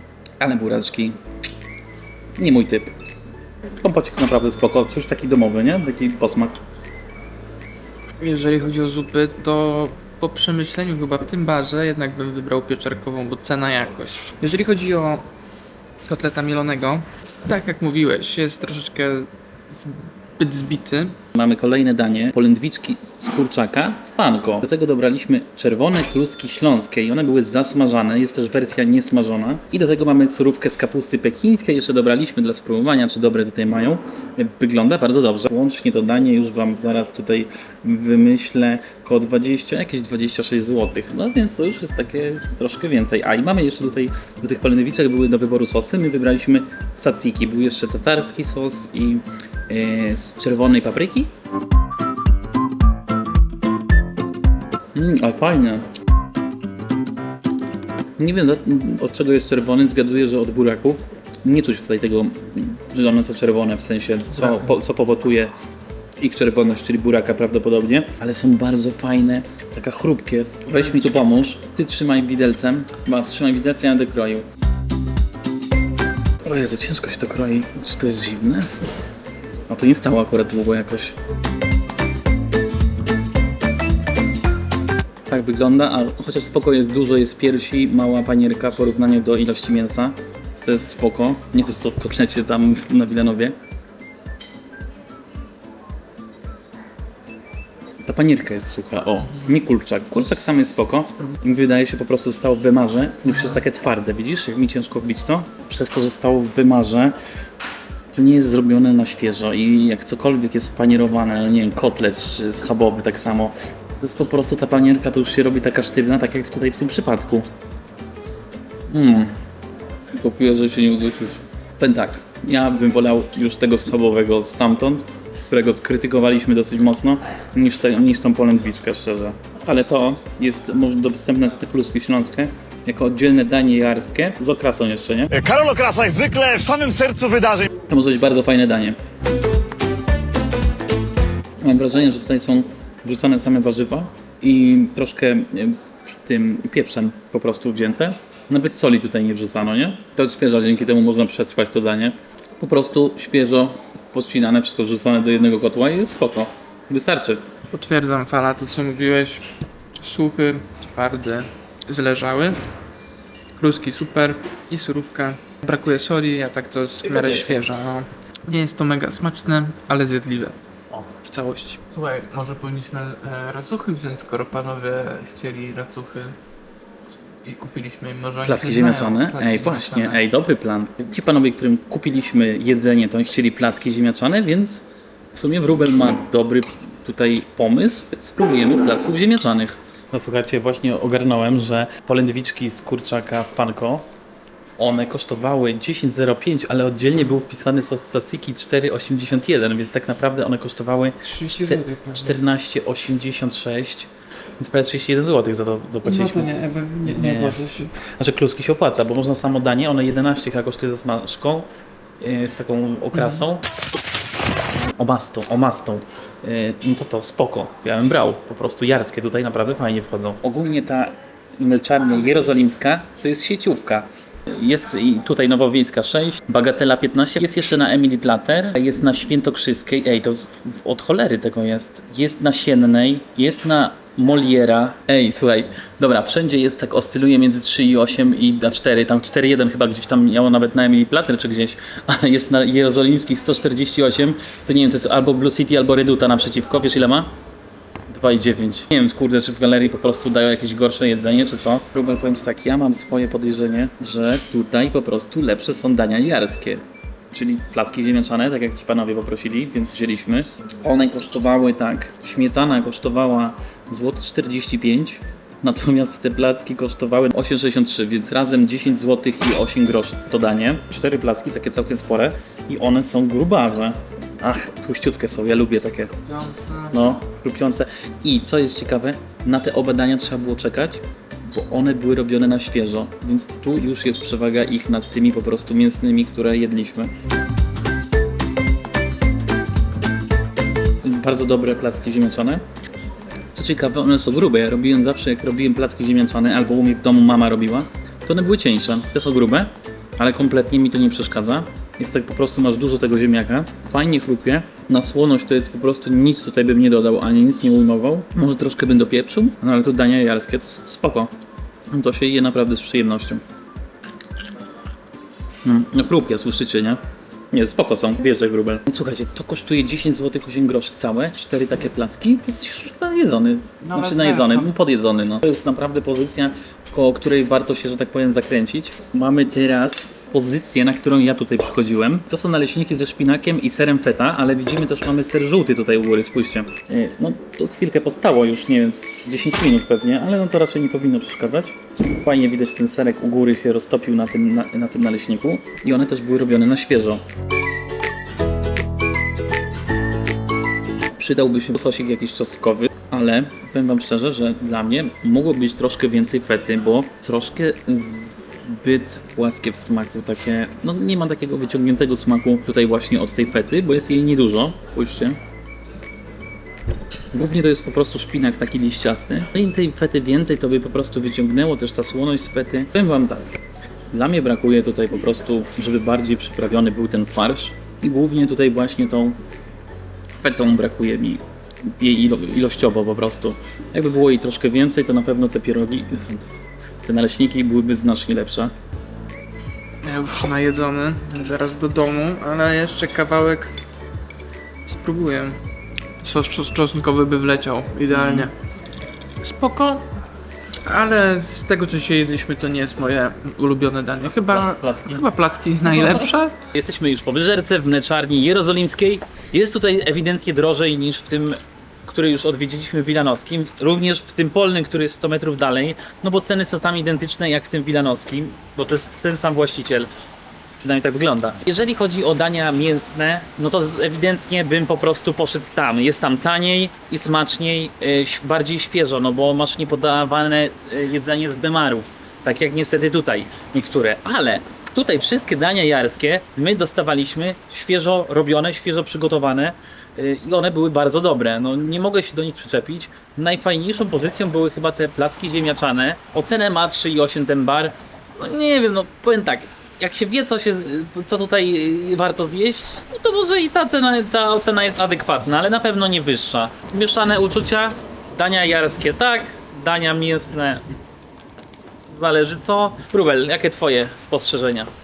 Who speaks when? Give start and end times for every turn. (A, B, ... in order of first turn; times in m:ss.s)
0:00.4-0:01.2 A
0:02.4-0:02.9 A
0:03.8-0:06.6 A
0:08.2-0:15.2 B
0:16.0-0:21.2 B
0:21.4-0:51.3 A
0:54.9-0:55.8 A
0:58.2-1:05.5 A
1:06.2-1:14.4 A
1:16.4-1:18.7 A
1:19.7-1:21.1 A
1:25.3-1:33.5 A
1:38.0-1:47.1 A
1:48.1-1:57.4 A
1:58.9-1:59.3 A
2:00.1-2:15.3 A
2:15.3-2:17.7 C
2:17.9-2:19.0 A
2:21.6-2:37.4 A
2:37.7-2:42.6 B
2:43.6-2:56.4 B
2:57.4-3:00.2 B
2:58.4-3:14.0 A
3:14.8-3:31.7 A
3:21.2-3:22.4 B
3:26.0-3:27.9 B
3:32.2-3:33.6 A
3:35.0-4:07.3 A
4:08.1-4:36.1 A
4:36.2-4:37.1 B
4:36.9-4:47.1 A
4:51.0-4:52.6 A
4:53.5-5:11.3 A
5:11.9-5:13.4 A
5:15.6-5:17.0 A
5:17.5-5:47.2 A
5:23.8-5:24.7 B
5:51.1-6:05.4 A
6:07.3-6:13.5 A
6:14.1-6:19.4 A
6:20.3-6:21.4 A
6:22.0-6:26.4 A
6:27.0-6:28.7 A
6:30.0-6:33.7 B
6:34.8-6:35.6 B
6:36.2-6:38.5 B
6:38.1-6:38.5 A
6:39.4-6:40.1 B
6:40.8-6:46.5 B
6:44.2-6:45.3 A
6:45.9-7:00.1 A
7:00.8-7:40.8 A
7:42.1-7:44.9 A